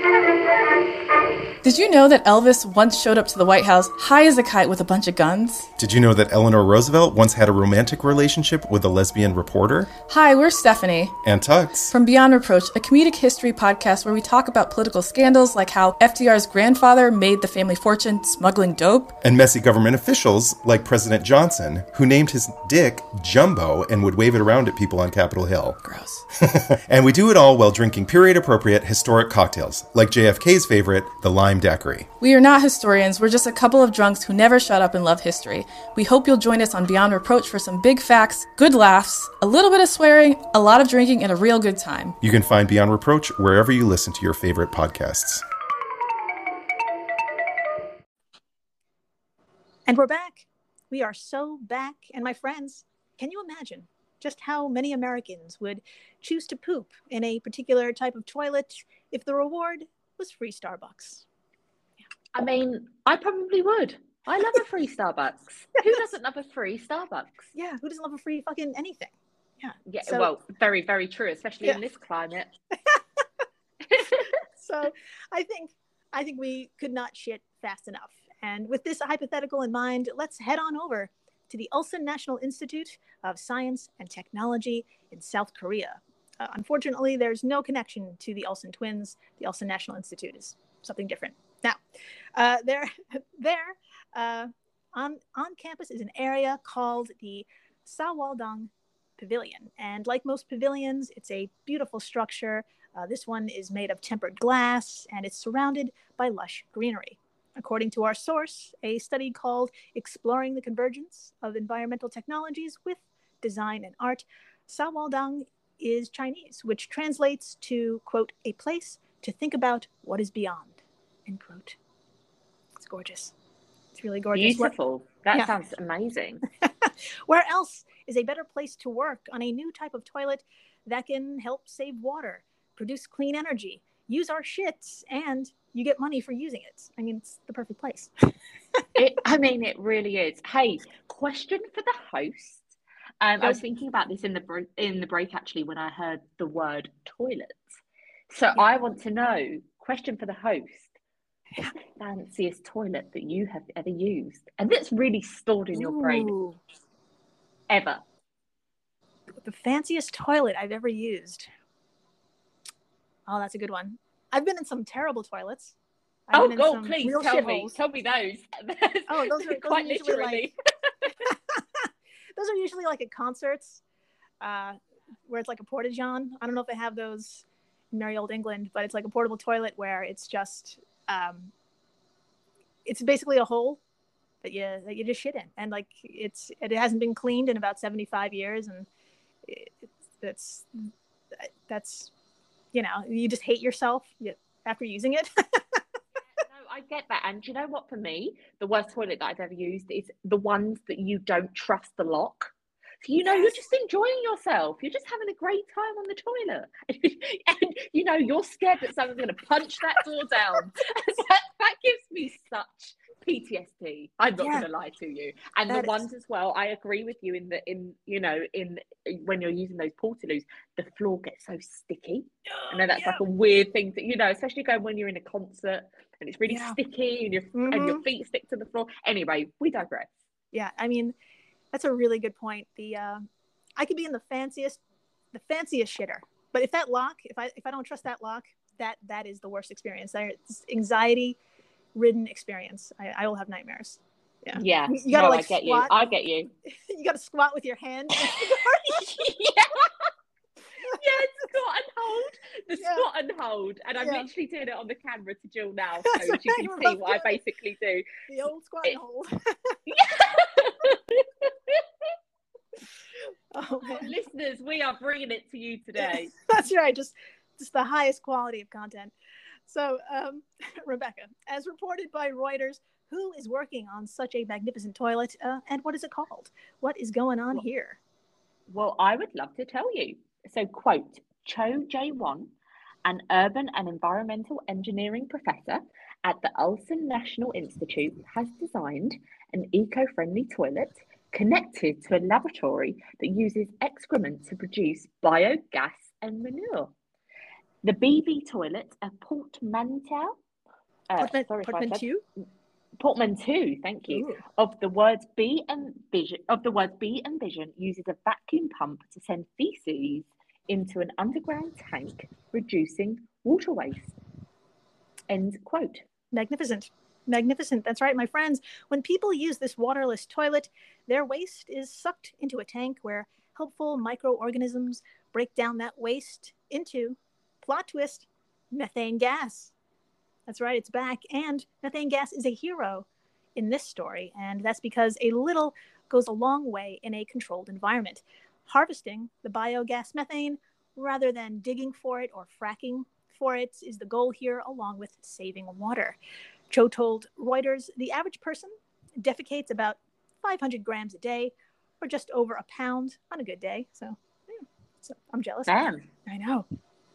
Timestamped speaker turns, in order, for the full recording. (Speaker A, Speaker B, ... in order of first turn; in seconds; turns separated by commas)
Speaker A: 1.6-5.7, Speaker B: 5.8-9.9, Speaker A: 10.1-11.2, Speaker B: 11.2-11.9, Speaker A: 11.9-19.1, Speaker B: 19.2-25.8, Speaker A: 25.8-26.2, Speaker B: 26.4-32.1, Speaker A: 32.2-42.2, Speaker B: 42.2-45.4, Speaker C: 49.9-61.2, Speaker D: 62.4-67.5, Speaker C: 67.5-70.3, Speaker D: 69.9-72.5, Speaker D: 73.9-74.3, Speaker C: 74.6-91.8, Speaker C: 92.4-120.8, Speaker C: 121.3-121.8, Speaker C: 122.8-123.3, Speaker C: 124.0-124.7, Speaker D: 124.3-126.4, Speaker C: 126.8-138.1, Speaker D: 139.0-142.7, Speaker D: 143.2-147.8, Speaker D: 148.3-150.9, Speaker D: 152.0-156.3, Speaker C: 155.7-156.6, Speaker D: 157.7-158.0, Speaker C: 159.4-161.5, Speaker C: 163.3-165.8, Speaker C: 166.3-167.7, Speaker D: 166.3-170.9, Speaker C: 169.1-170.5, Speaker C: 171.1-173.8, Speaker C: 174.4-181.5, Speaker C: 182.8-183.8, Speaker C: 184.4-188.9, Speaker C: 189.5-192.1, Speaker C: 192.7-195.8, Speaker D: 196.4-202.5, Speaker D: 203.0-230.1, Speaker C: 203.3-203.5, Speaker C: 214.4-214.7, Speaker C: 215.7-216.0, Speaker C: 222.6-223.2, Speaker C: 226.5-226.8, Speaker C: 227.5-228.0, Speaker C: 230.5-231.2, Speaker C: 231.7-233.2, Speaker C: 233.8-234.8, Speaker C: 235.3-241.4, Speaker C: 241.9-245.9, Speaker D: 244.6-246.5, Speaker C: 246.7-249.3, Speaker D: 248.9-250.1, Speaker D: 250.8-258.1, Speaker C: 252.7-253.1, Speaker C: 254.0-254.3, Speaker C: 256.1-257.3, Speaker C: 258.3-259.8, Speaker D: 259.9-261.9, Speaker C: 263.5-264.1, Speaker D: 263.8-266.3, Speaker C: 266.0-269.1, Speaker C: 269.7-278.0, Speaker D: 278.7-282.5, Speaker D: 283.0-296.9, Speaker D: 297.8-300.4, Speaker D: 301.1-302.1, Speaker C: 301.2-302.2, Speaker D: 303.0-314.1, Speaker C: 304.1-304.4, Speaker D: 315.3-316.1, Speaker C: 316.3-329.7, Speaker C: 330.5-346.2, Speaker C: 346.7-356.6, Speaker D: 355.7-356.1